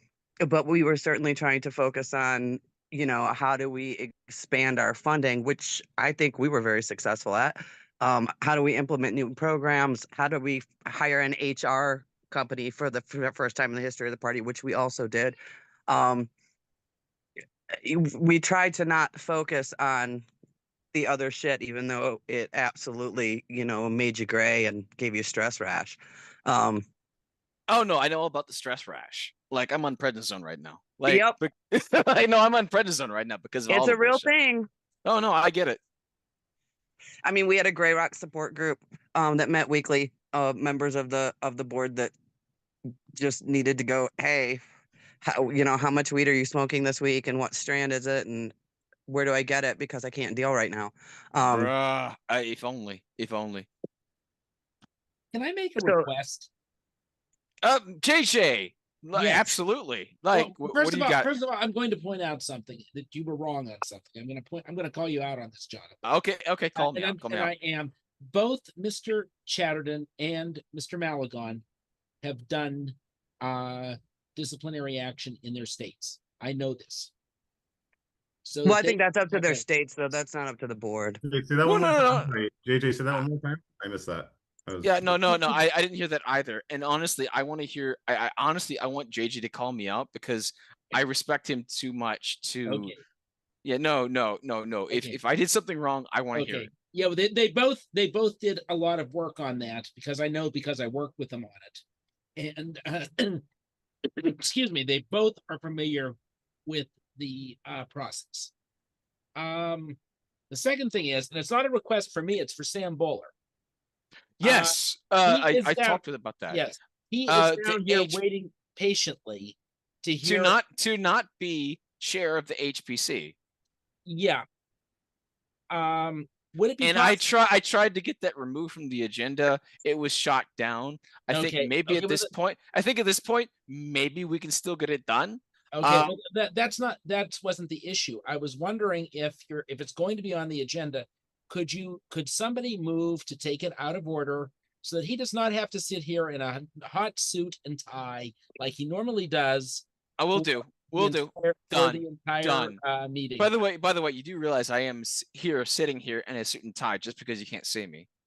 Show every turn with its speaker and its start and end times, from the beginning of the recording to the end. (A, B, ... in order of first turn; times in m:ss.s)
0:00.4-0:15.4 A
0:15.9-0:16.3 A
0:17.8-0:20.2 A
0:20.9-0:26.8 A
0:27.7-0:34.3 B
0:31.0-0:31.4 A
0:33.7-0:34.7 A
0:35.0-0:35.8 B
0:37.2-0:42.1 A
0:43.2-0:44.6 A
0:45.2-0:48.5 A
0:49.1-0:51.7 A
0:51.4-0:53.7 B
0:55.3-0:56.5 C
0:55.8-0:56.1 A
0:57.6-1:01.4 B
0:59.1-0:59.6 C
1:00.3-1:06.2 C
1:06.0-1:07.5 B
1:06.8-1:11.6 C
1:12.2-1:17.1 C
1:18.4-1:19.6 C
1:18.6-1:21.2 A
1:21.2-1:25.2 D
1:21.7-1:22.3 B
1:24.8-1:32.9 B
1:32.7-1:33.0 C
1:33.6-1:36.7 B
1:34.9-1:35.2 C
1:36.3-1:41.8 C
1:42.4-1:43.4 C
1:44.0-1:46.1 C
1:46.7-1:48.5 C
1:49.4-1:50.0 C
1:50.5-1:53.3 C
1:54.4-1:56.6 B
1:54.4-2:00.6 C
1:57.3-1:58.2 B
2:00.2-2:03.3 B
2:04.1-2:04.4 C
2:05.7-2:07.2 C
2:06.8-2:16.1 B
2:11.3-2:12.3 C
2:15.7-2:33.5 C
2:30.2-2:32.8 B
2:33.4-2:38.1 B